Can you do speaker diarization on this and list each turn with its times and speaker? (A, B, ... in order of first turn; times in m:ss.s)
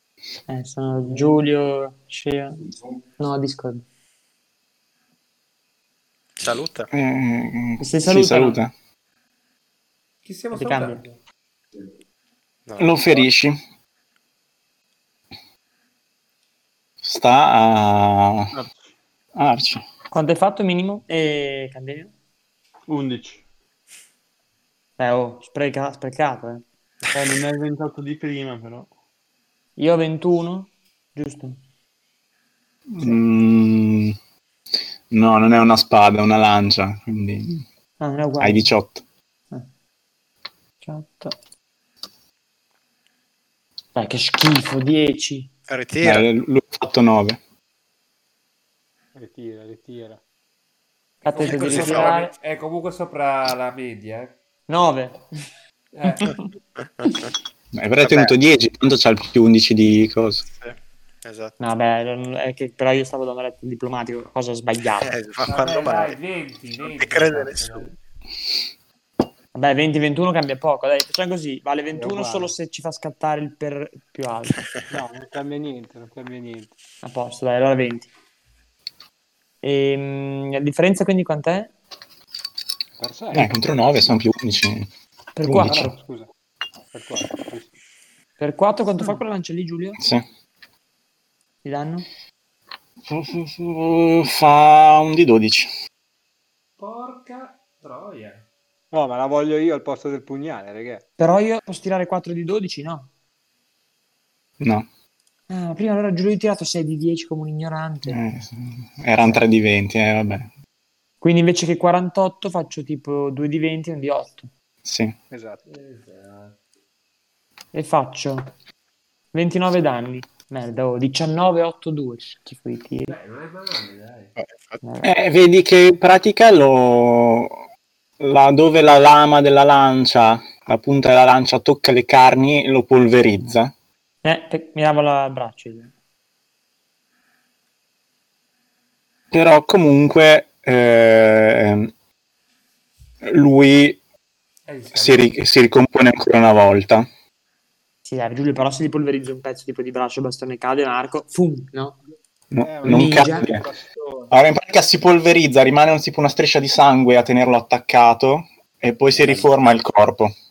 0:00.5-0:03.8 A
0:06.4-0:06.9 B
0:06.9-0:08.7 C
0:07.8-0:08.6 A
0:10.2-0:11.2 D
0:10.5-0:11.0 A
0:12.7-0:13.3 B
0:12.8-0:13.6 C
0:17.0-0:18.5 C
0:18.5-0:18.9 E
0:19.4-0:19.8 C
0:20.1-0:22.1 A
0:22.9-0:23.4 E
0:25.0-0:26.6 A
0:27.2-0:28.9 E
0:29.8-0:31.6 A
0:32.9-0:34.2 C
0:35.1-0:37.6 C
0:38.0-0:38.7 A
0:38.4-0:39.0 C
0:40.8-0:41.4 A
0:44.0-0:45.5 A
0:45.7-0:46.3 B
0:46.0-0:47.4 C
0:49.2-0:50.2 F
0:51.2-0:52.3 A
0:51.3-0:54.4 D
0:51.5-0:52.2 B
0:54.7-0:55.5 A
0:55.9-0:56.3 D
0:56.0-0:56.5 A
0:57.0-0:57.3 B
0:57.7-1:00.5 C
0:58.0-0:58.4 B
1:00.6-1:01.5 B
1:01.6-1:05.2 A
1:05.0-1:06.2 B
1:05.5-1:07.9 D
1:06.8-1:07.9 B
1:09.5-1:14.6 A
1:12.0-1:12.6 F
1:14.9-1:16.8 F
1:17.0-1:18.1 A
1:19.6-1:21.7 A
1:23.0-1:23.5 F
1:23.3-1:24.9 C
1:25.4-1:26.0 A
1:25.4-1:25.9 C
1:25.7-1:26.3 F
1:26.9-1:27.7 F
1:28.4-1:30.0 A
1:30.0-1:30.2 C
1:31.6-1:32.1 A
1:33.1-1:35.7 C
1:36.8-1:38.4 D
1:38.9-1:41.0 F
1:41.2-1:43.1 A
1:44.6-1:44.9 C
1:45.5-1:48.2 A
1:48.1-1:50.5 C
1:51.2-1:54.5 A
1:54.8-1:55.2 C
1:55.3-1:55.6 F
1:55.7-1:56.6 D
1:57.7-1:58.5 A
1:59.3-2:03.2 A
2:03.1-2:04.4 D
2:04.4-2:04.8 B
2:04.8-2:05.1 A
2:05.0-2:07.6 C
2:08.2-2:13.7 C
2:14.2-2:15.9 A
2:19.3-2:21.9 C
2:23.2-2:24.0 C
2:24.7-2:25.3 D
2:24.9-2:27.1 C
2:28.1-2:32.0 A
2:32.5-2:33.6 C
2:32.6-2:34.3 F
2:32.8-2:33.6 A
2:34.3-2:40.3 C
2:39.2-2:39.5 A